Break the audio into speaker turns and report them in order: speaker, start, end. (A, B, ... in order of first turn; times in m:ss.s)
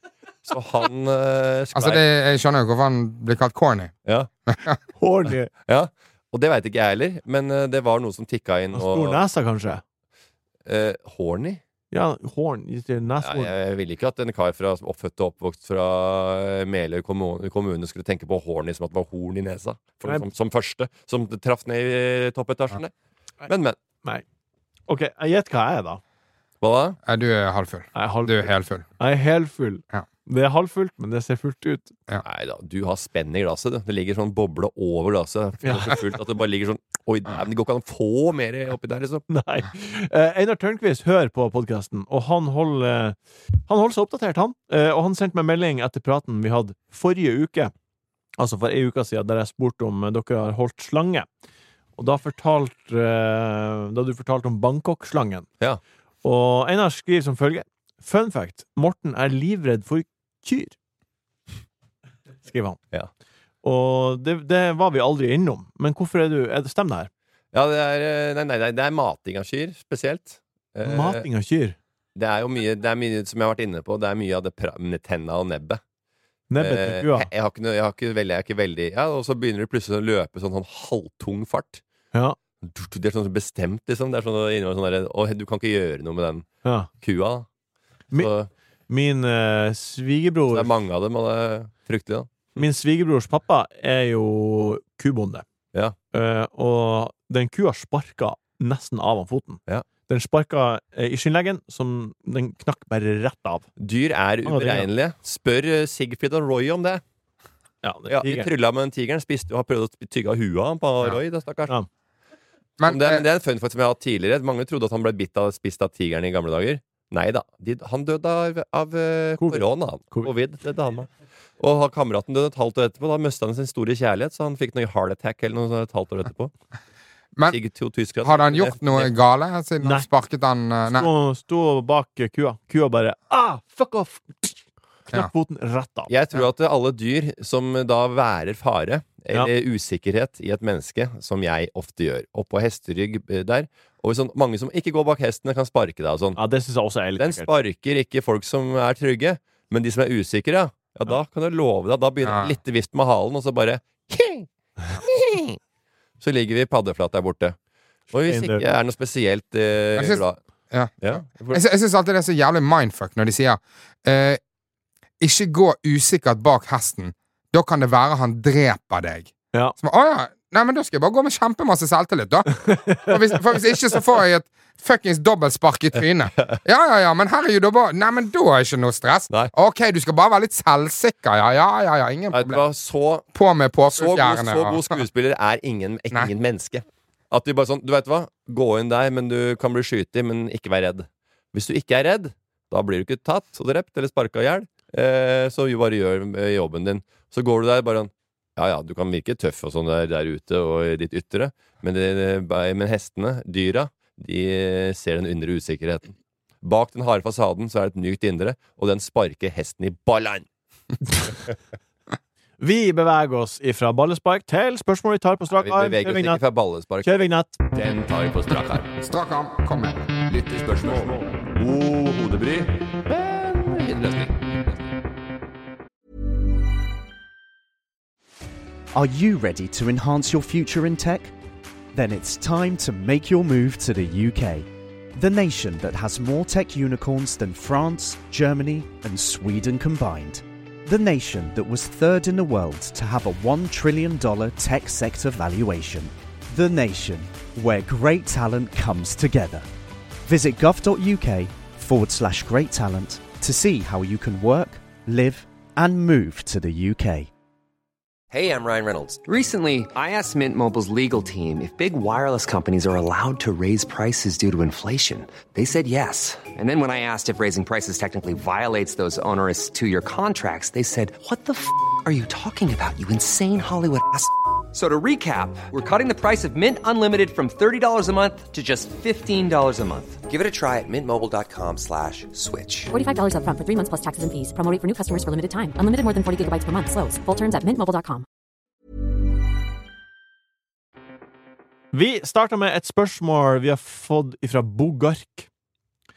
0:00.4-0:02.0 A
0:01.7-0:03.9 B
0:04.5-0:04.8 B
0:05.0-0:05.5 C
0:05.7-0:09.2 A
0:08.7-0:09.8 C
0:10.7-0:11.6 A
0:11.9-0:13.5 C
0:13.2-0:22.9 A
0:23.5-0:23.8 A
0:24.9-0:26.0 C
0:26.6-0:27.0 A
0:27.1-0:28.9 B
0:28.0-0:31.9 C
0:32.2-0:39.2 A
0:35.6-0:35.9 C
0:39.3-0:47.7 C
0:48.4-0:51.3 C
0:52.0-0:55.5 C
0:56.2-1:00.8 C
1:02.4-1:02.8 C
1:03.6-1:07.1 C
1:07.5-1:11.3 A
1:10.8-1:11.8 C
1:12.2-1:15.8 A
1:16.5-1:17.3 C
1:16.6-1:21.8 A
1:22.6-1:26.5 A
1:26.6-1:26.9 C
1:27.0-1:27.5 A
1:28.2-1:28.5 A
1:28.9-1:30.7 C
1:30.5-1:32.6 A
1:32.6-1:35.4 C
1:36.1-1:43.7 C
1:43.8-1:47.0 A
1:44.4-1:44.9 C
1:47.8-1:48.5 C
1:48.1-1:51.7 A
1:52.8-1:53.2 B
1:52.8-2:06.5 A
1:59.4-2:00.3 C
2:07.5-2:09.1 A
2:08.2-2:11.1 B
2:10.9-2:14.6 C
2:15.1-2:16.1 C
2:16.1-2:26.4 A
2:26.4-2:27.5 C
2:27.2-2:34.5 A
2:32.2-2:32.6 B
2:35.0-2:35.6 A
2:36.2-2:37.6 A
2:38.1-2:40.4 A
2:38.3-2:38.6 C
2:40.0-2:44.4 B
2:41.0-2:41.6 A
2:45.2-3:02.6 B
2:52.7-2:53.2 C
3:02.3-3:03.3 A
3:03.3-3:05.0 B
3:03.9-3:30.5 A
3:32.6-3:36.4 C
3:35.6-3:39.0 A
3:37.0-3:37.6 C
3:39.0-3:40.1 B
3:40.3-3:44.9 A
3:48.9-3:51.3 D
3:51.9-4:09.7 D
4:10.2-4:17.3 D
4:18.3-4:42.9 E
4:42.9-4:48.2 F
4:51.9-4:55.5 C